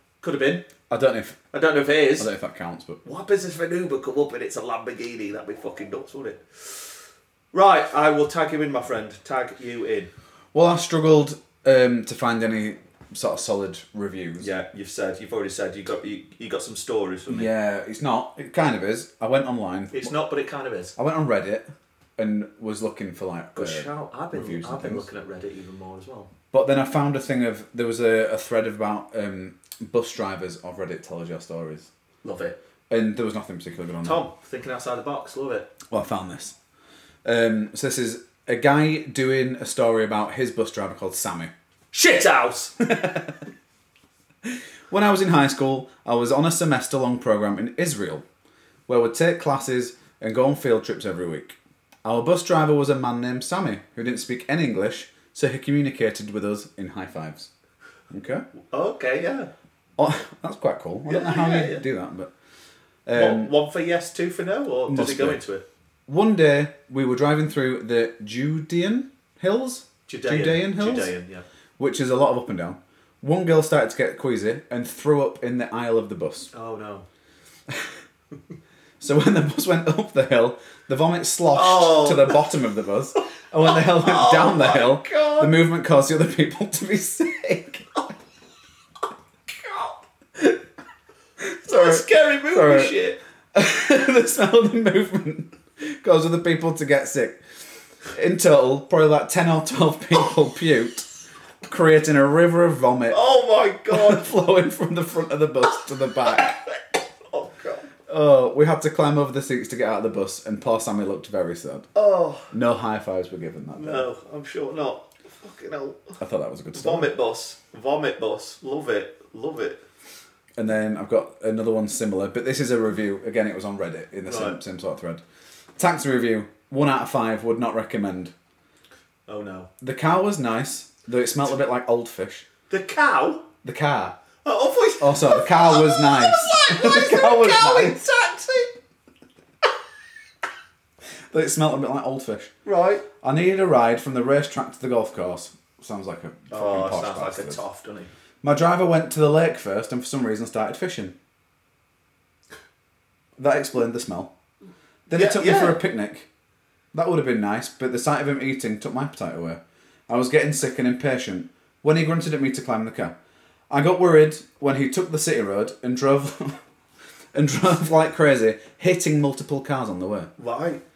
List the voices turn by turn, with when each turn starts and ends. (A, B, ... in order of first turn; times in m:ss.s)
0:00.2-0:00.6 A
0:00.9-0:01.4 B
0:01.5-0:02.3 A
0:02.2-0:03.0 B
0:03.0-0:06.8 A
0:07.5-0:10.1 A
0:10.5-0:14.5 B
0:14.4-0:17.5 A
0:17.3-0:20.1 B
0:19.9-0:20.9 A
0:21.0-0:25.1 B
0:23.5-0:26.3 A
0:26.5-0:31.9 B
0:32.2-0:32.6 A
0:32.9-0:34.2 B
0:34.0-0:35.7 A
0:35.9-0:36.6 B
0:37.2-0:41.5 B
0:41.9-0:42.7 A
0:42.8-0:43.4 B
0:44.4-0:48.2 B
0:48.9-0:57.5 B
0:58.1-0:58.4 B
0:58.7-0:59.5 A
1:00.0-1:02.3 B
1:01.1-1:01.8 A
1:03.0-1:03.5 B
1:03.1-1:05.6 A
1:04.9-1:05.4 B
1:06.1-1:11.1 B
1:10.1-1:11.4 A
1:11.8-1:16.5 B
1:16.5-1:17.0 A
1:19.0-1:27.9 B
1:21.5-1:22.4 A
1:23.6-1:25.5 A
1:29.5-1:29.9 A
1:30.4-1:30.6 B
1:31.6-1:32.9 B
1:31.6-1:33.2 A
1:33.5-1:37.4 B
1:38.1-1:41.1 B
1:41.6-1:43.2 B
1:43.1-1:44.2 A
1:43.9-1:46.6 B
1:47.3-1:47.9 A
1:48.1-1:51.9 B
1:51.9-1:52.5 A
1:52.5-1:54.1 B
1:53.8-1:56.2 A
1:56.2-1:57.1 B
1:56.7-1:59.8 A
2:00.6-2:05.2 B
2:04.2-2:04.6 A
2:05.8-2:08.3 B
2:09.3-2:09.7 A
2:09.8-2:12.5 B
2:12.7-2:13.4 A
2:13.6-2:14.2 B
2:14.4-2:18.8 A
2:15.0-2:18.0 B
2:21.3-2:22.5 B
2:22.6-2:23.0 A
2:23.2-2:27.6 B
2:26.5-2:28.1 A
2:28.4-2:31.1 B
2:33.4-2:34.3 B
2:35.1-2:36.3 B
2:35.1-2:35.8 A
2:36.9-2:43.1 B
2:43.7-2:46.6 B
2:47.3-2:50.3 B
2:50.4-2:50.8 A